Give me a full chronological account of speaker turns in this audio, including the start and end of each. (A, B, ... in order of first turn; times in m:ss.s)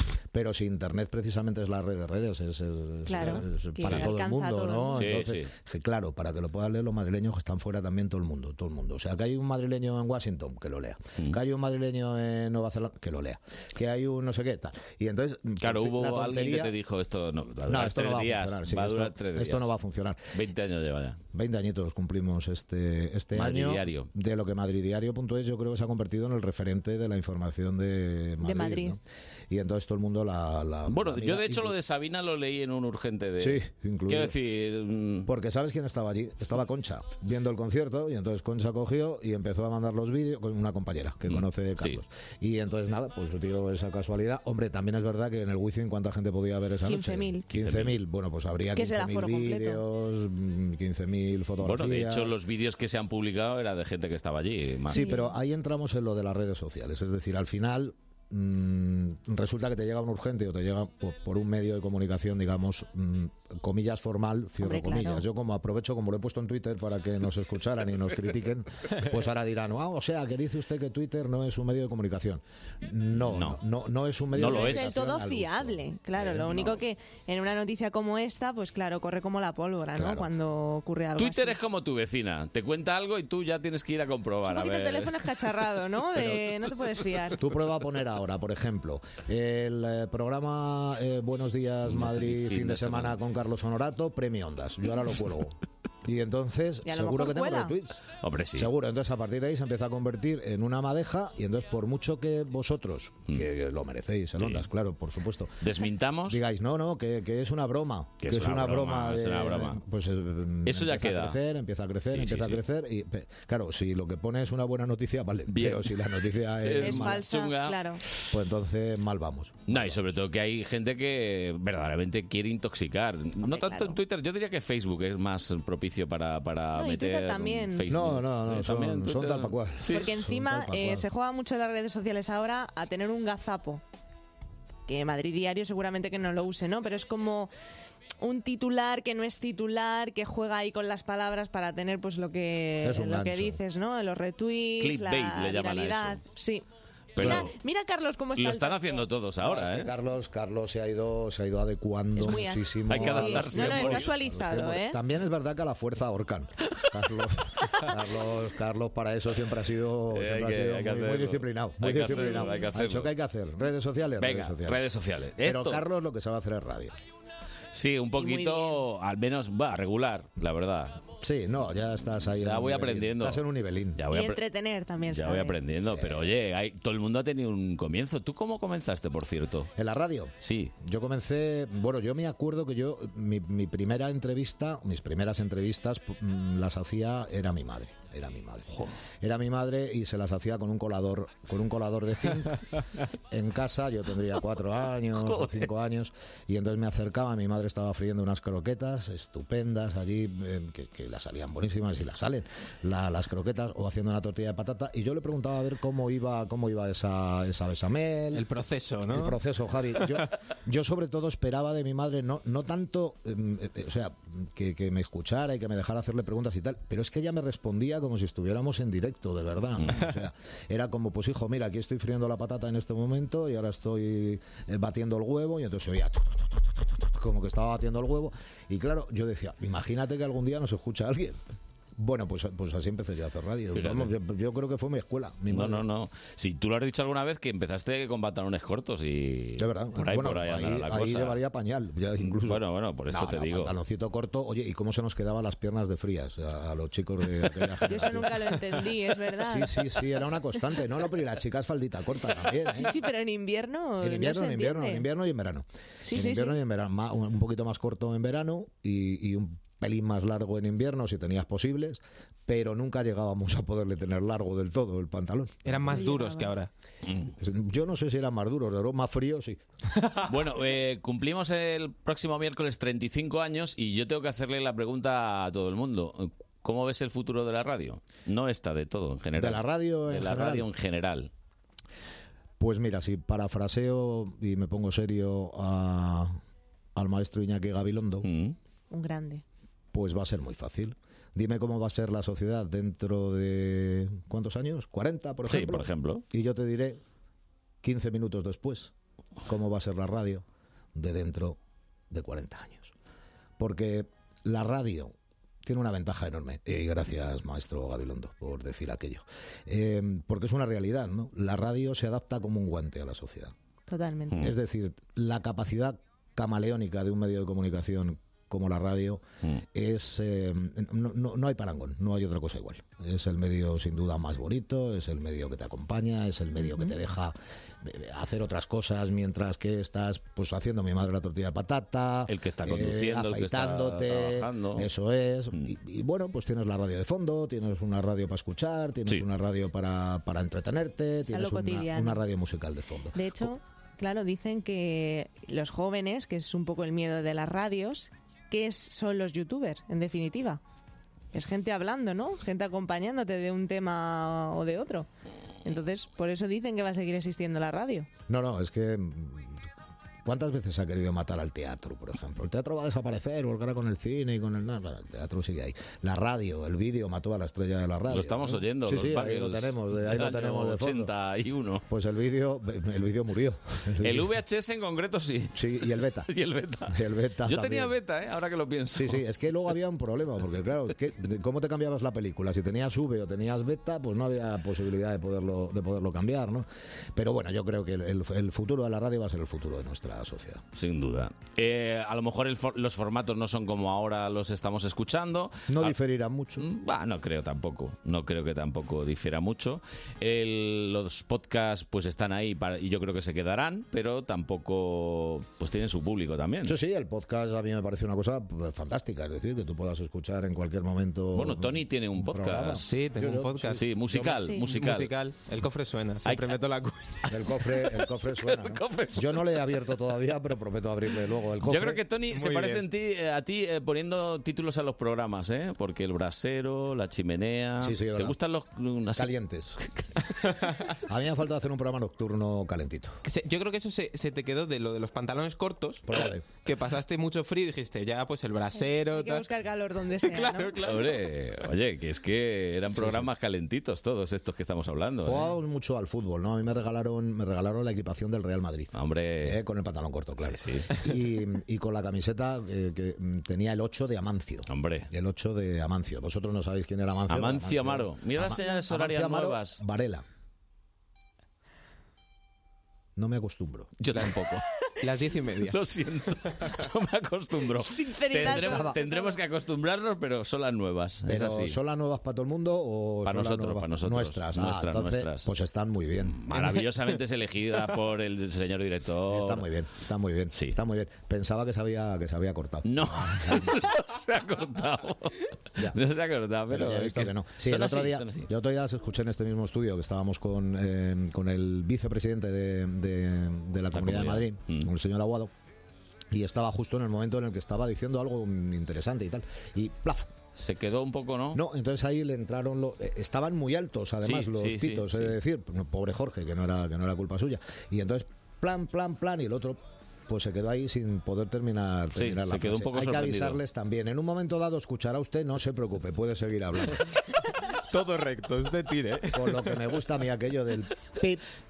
0:00.3-0:16.8 A
0:03.1-0:05.1 B
0:03.8-0:04.1 C
0:05.0-0:05.5 C
0:15.6-0:19.7 C
0:17.7-0:20.4 A
0:20.3-0:21.2 C
0:21.3-0:31.8 A
0:23.3-0:24.1 C
0:28.4-0:29.0 B
0:30.9-0:35.3 C
0:33.4-0:34.4 A
0:35.3-0:52.4 A
0:41.3-0:42.0 C
0:46.8-0:47.5 B
0:47.5-0:48.0 C
0:48.7-0:49.8 B
0:51.6-0:55.1 C
0:54.9-0:55.3 B
0:54.9-1:16.8 A
1:04.6-1:05.3 B
1:13.2-1:13.6 C
1:14.3-1:15.0 C
1:14.4-1:21.6 B
1:20.0-1:20.3 A
1:21.2-1:25.4 C
1:24.5-1:27.4 B
1:27.4-1:38.0 A
1:31.9-1:33.2 C
1:36.8-1:37.8 B
1:38.2-1:38.7 C
1:38.6-1:45.6 A
1:44.4-1:44.7 C
1:45.6-1:46.4 C
1:46.3-1:57.2 A
1:48.2-1:49.8 C
1:50.7-1:51.4 C
1:52.1-1:52.6 C
1:55.5-1:58.3 C
1:56.8-1:58.0 B
1:58.3-2:00.0 A
1:59.7-2:10.1 C
2:03.4-2:04.0 B
2:06.8-2:07.8 B
2:07.9-2:11.1 A
2:09.9-2:13.8 B
2:14.9-2:17.5 B
2:18.2-2:26.7 B
2:22.8-2:23.6 A
2:24.8-2:26.2 C
2:27.2-2:27.6 C
2:27.2-2:27.5 A
2:27.2-2:29.0 B
2:28.4-2:29.9 C
2:29.4-2:44.8 A
2:32.2-2:35.0 B
2:32.9-2:34.1 C
2:40.1-2:43.1 C
2:44.2-2:45.8 C
2:45.4-2:47.0 A
2:47.7-2:51.0 C
2:48.2-2:48.8 B
2:51.2-2:54.0 A
2:52.3-2:53.4 C
2:54.0-2:54.4 C
2:54.1-2:55.6 B
2:55.0-2:59.7 C
2:55.8-2:56.3 A
2:59.8-3:12.6 A
3:00.4-3:00.7 C
3:13.3-3:28.5 A
3:15.2-3:15.7 C
3:28.3-3:29.4 D
3:29.1-3:51.4 A
3:52.0-3:55.8 A
3:53.7-3:54.1 C
3:55.5-4:01.4 C
3:59.6-4:08.8 A
4:02.2-4:03.7 C
4:07.9-4:10.0 B
4:09.4-4:12.9 A
4:12.7-4:15.1 B
4:14.0-4:26.1 A
4:16.0-4:16.6 B
4:25.6-4:26.7 D
4:25.9-4:26.6 B
4:27.3-4:29.6 A
4:30.2-4:41.3 C
4:39.4-4:40.7 A
4:42.6-4:46.4 A
4:47.0-4:48.3 A
4:48.2-4:48.6 C
4:48.9-4:49.4 B
4:49.9-4:57.0 A
4:55.5-4:56.2 C
4:57.8-4:58.9 A
4:59.5-5:01.6 A
5:02.1-5:02.9 A
5:03.6-5:13.5 A
5:13.9-5:14.4 B
5:14.3-5:43.5 A
5:32.3-5:34.9 C
5:41.3-5:42.2 B
5:43.2-5:50.6 B
5:51.3-5:55.1 B
5:55.6-5:58.1 B
5:58.3-5:59.7 A
6:00.2-6:11.1 A
6:08.1-6:11.8 C
6:11.9-6:14.3 A
6:14.0-6:19.2 C
6:15.5-6:16.3 A
6:16.9-6:17.9 A
6:18.9-6:30.6 A
6:30.8-6:36.0 C
6:35.7-6:36.6 A
6:36.6-6:46.8 C
6:46.6-6:54.4 A
6:51.4-6:52.8 C
6:52.8-6:57.2 D
6:53.7-6:55.1 C
6:56.2-6:56.6 C
6:57.3-7:02.0 A
6:57.5-6:59.8 C
7:01.6-7:10.4 C
7:02.3-7:02.8 D
7:07.8-7:08.4 A
7:09.2-7:09.8 A
7:10.9-7:13.2 A
7:13.2-7:19.5 D
7:16.0-7:16.4 A
7:18.7-7:20.9 B
7:20.2-7:21.1 D
7:20.8-7:25.5 C
7:23.0-7:23.3 A
7:25.2-7:40.2 A
7:28.9-7:29.6 C
7:30.4-7:30.9 C
7:34.7-7:35.1 C
7:37.3-7:39.8 C
7:43.2-7:44.0 A
7:44.0-7:44.6 C
7:44.1-7:44.4 D
7:45.0-7:45.8 D
7:45.7-7:51.8 C
7:47.8-7:49.4 B
7:48.5-7:49.0 A
7:51.2-7:56.4 A
7:53.3-7:55.5 C
7:56.3-7:59.7 C
7:59.3-8:03.8 A
8:02.8-8:08.5 C
8:06.7-8:15.5 A
8:13.9-8:14.9 C
8:16.3-8:20.3 A
8:20.6-8:21.6 C
8:21.5-8:37.1 A
8:24.2-8:25.4 C
8:32.2-8:33.6 C
8:37.9-8:39.9 D
8:39.3-8:41.4 A